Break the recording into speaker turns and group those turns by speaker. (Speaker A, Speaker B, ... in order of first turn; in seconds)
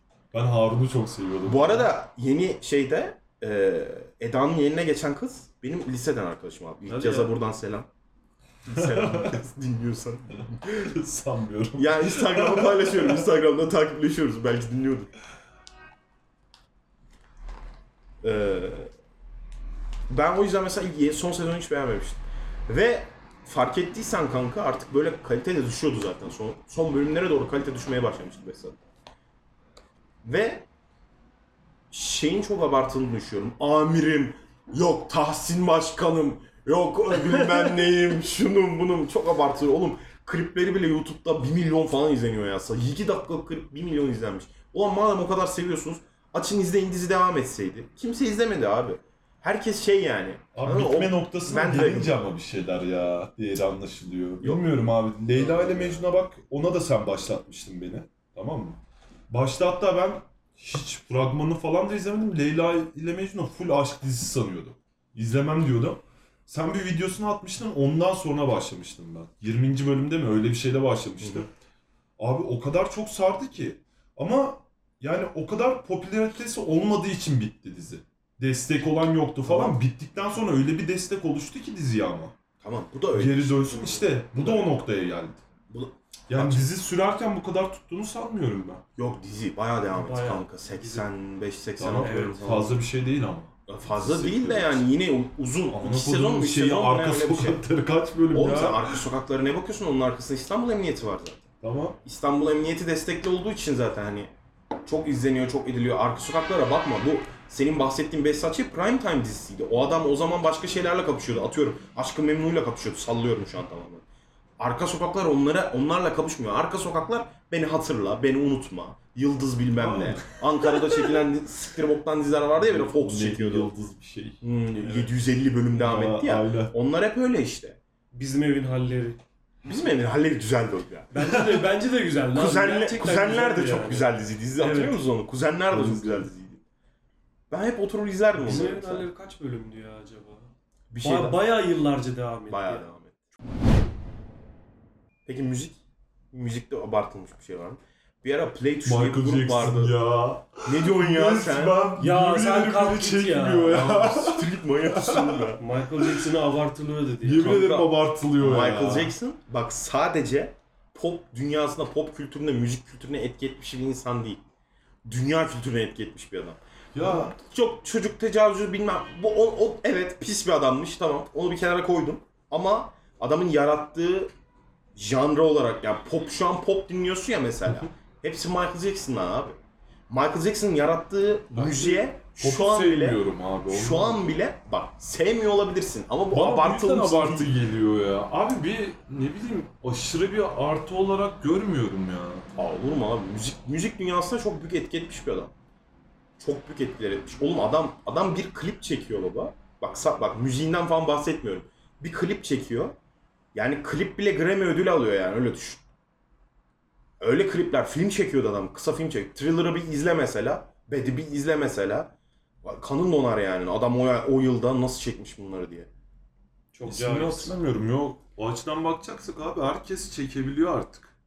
Speaker A: 0.3-1.9, 8.7-9.4, 10.7-13.2, 50.5-71.5, 72.2-82.3, 83.2-85.4, 86.3-88.8, 91.8-94.9, 95.7-99.0, 101.6-102.0, 119.8-120.4, 122.6-124.4, 125.7-126.7, 131.2-131.7, 135.7-136.3, 148.8-155.5, 157.2-159.1, 166.9-167.3, 181.5-184.3, 186.3-192.5, 216.9-221.1
Speaker B: 1.4-7.9, 8.7-10.9, 11.8-15.1, 18.2-18.9, 20.1-28.8, 30.2-30.7, 31.9-52.2, 55.4-56.1, 79.4-79.8, 82.6-84.7, 85.7-86.7, 89.0-92.7, 93.7-97.6, 98.3-101.5, 102.0-104.3, 104.9-114.0, 114.6-123.7, 124.4-127.8, 129.6-131.1, 132.3-136.6, 137.5-139.1, 140.9-141.4, 142.5-143.2, 145.3-150.0, 150.6-151.8, 153.7-155.6, 157.4-164.4, 165.1-174.3, 174.9-179.6, 180.1-187.5, 192.6-195.5, 196.4-202.9, 203.5-205.8, 207.2-215.9
Speaker C: 6.9-7.3, 83.8-84.0, 89.9-91.1, 92.0-92.7, 128.1-129.2, 131.1-134.1, 134.6-135.0, 138.3-140.5, 141.0-142.9, 152.0-153.9, 155.6-157.7, 216.7-217.5